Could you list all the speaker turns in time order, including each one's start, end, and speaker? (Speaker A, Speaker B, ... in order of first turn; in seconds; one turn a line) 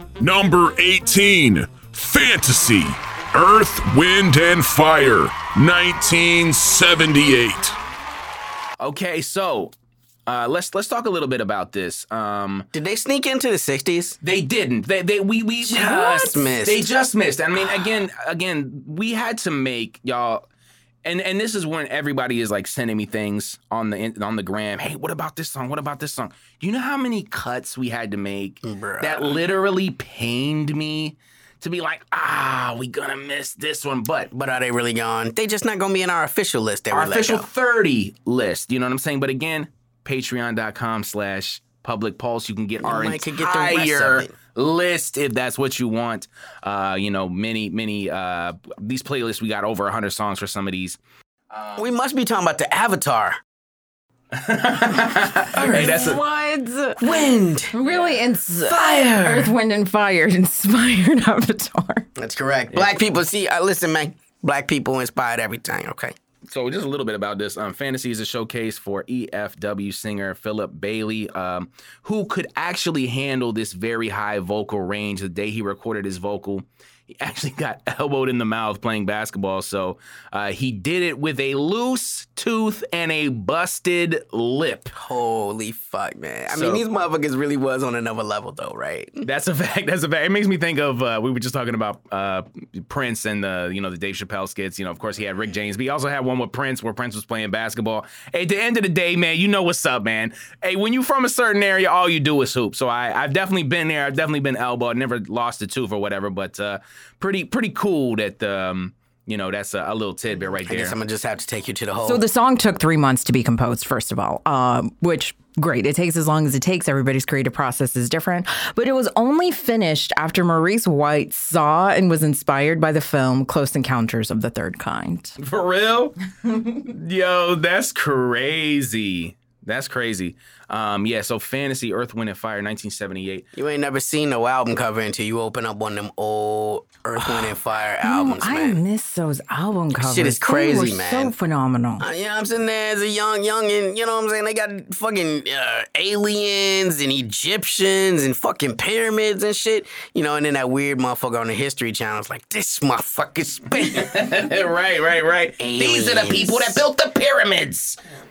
Speaker A: 0.2-7.8
Speaker B: 8.8-9.7
Speaker B: 10.3-12.7
Speaker C: 12.7-14.2
Speaker B: 14.2-20.4
Speaker C: 15.6-16.9
Speaker B: 21.1-34.3
Speaker C: 28.6-29.4
Speaker C: 34.3-37.5
Speaker B: 36.9-51.0
Speaker C: 42.8-44.3
Speaker B: 51.5-51.9
Speaker C: 51.8-53.4
Speaker B: 54.3-56.2
Speaker C: 55.5-56.2
Speaker D: 55.6-57.1
Speaker C: 57.0-57.8
Speaker D: 57.7-62.1
Speaker B: 57.8-58.2
Speaker C: 58.7-59.5
Speaker C: 62.2-66.2
Speaker B: 66.5-76.7
Speaker B: 77.2-84.9
Speaker C: 84.9-89.2
Speaker B: 86.5-86.8
Speaker B: 89.2-111.0
Speaker C: 110.7-112.2
Speaker D: 112.0-125.4
Speaker B: 125.4-133.4
Speaker C: 133.6-138.8
Speaker D: 138.0-142.1
Speaker C: 139.9-141.3
Speaker C: 142.0-154.2
Speaker B: 153.8-158.0
Speaker C: 155.6-156.8